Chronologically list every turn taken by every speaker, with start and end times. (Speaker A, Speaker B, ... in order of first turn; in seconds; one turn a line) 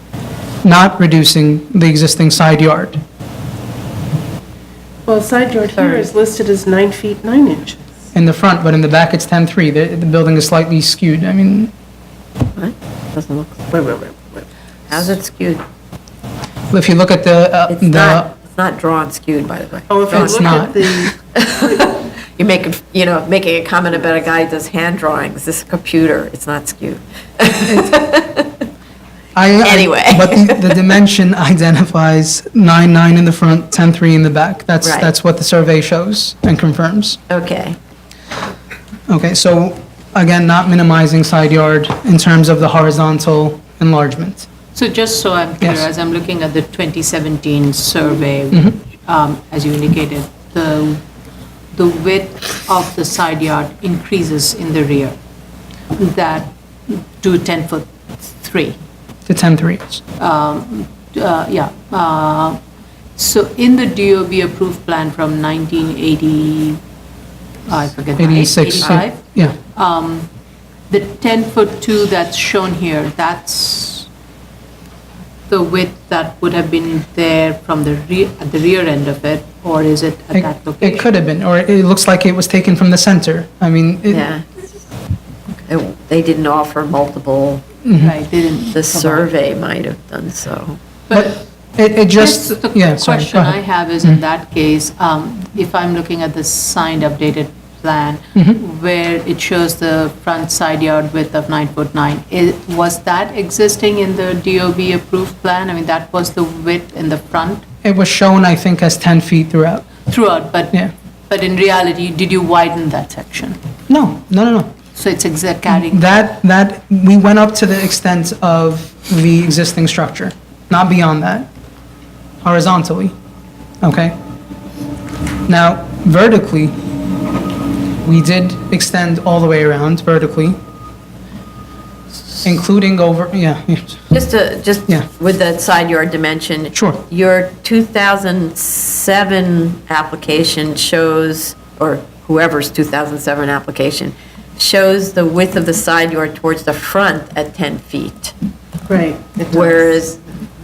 Speaker A: 0.6-3.0
Speaker B: 5.0-7.9
Speaker C: 5.8-6.1
Speaker A: 8.1-11.7
Speaker C: 12.5-13.7
Speaker B: 13.7-14.5
Speaker C: 14.9-15.6
Speaker A: 16.7-18.3
Speaker C: 17.7-28.7
Speaker B: 19.9-21.1
Speaker A: 20.1-20.7
Speaker A: 29.3-37.2
Speaker C: 29.6-30.9
Speaker C: 34.8-35.1
Speaker C: 37.3-37.8
Speaker A: 39.1-44.5
Speaker D: 44.7-51.0
Speaker A: 45.6-45.9
Speaker D: 51.7-55.2
Speaker D: 55.9-58.8
Speaker A: 59.3-60.0
Speaker D: 60.2-62.6
Speaker D: 63.1-66.8
Speaker D: 67.7-70.3
Speaker A: 68.2-69.6
Speaker D: 70.9-74.1
Speaker D: 75.5-81.1
Speaker A: 80.3-84.3
Speaker C: 84.1-84.4
Speaker C: 85.7-87.6
Speaker A: 87.8-88.1
Speaker D: 87.9-89.3
Speaker C: 88.7-90.8
Speaker D: 91.1-91.4
Speaker A: 91.1-94.2
Speaker D: 92.0-107.6
Speaker A: 98.3-98.6
Speaker A: 107.8-109.9
Speaker D: 110.1-110.7
Speaker D: 111.3-113.6
Speaker A: 113.9-114.7
Speaker D: 114.9-116.1
Speaker A: 115.7-121.5
Speaker A: 122.4-123.1
Speaker A: 123.8-124.2
Speaker A: 125.5-126.8
Speaker A: 128.0-130.6
Speaker A: 132.4-134.0
Speaker C: 134.1-148.3
Speaker A: 136.7-137.0
Speaker B: 148.9-149.9
Speaker C: 149.5-150.2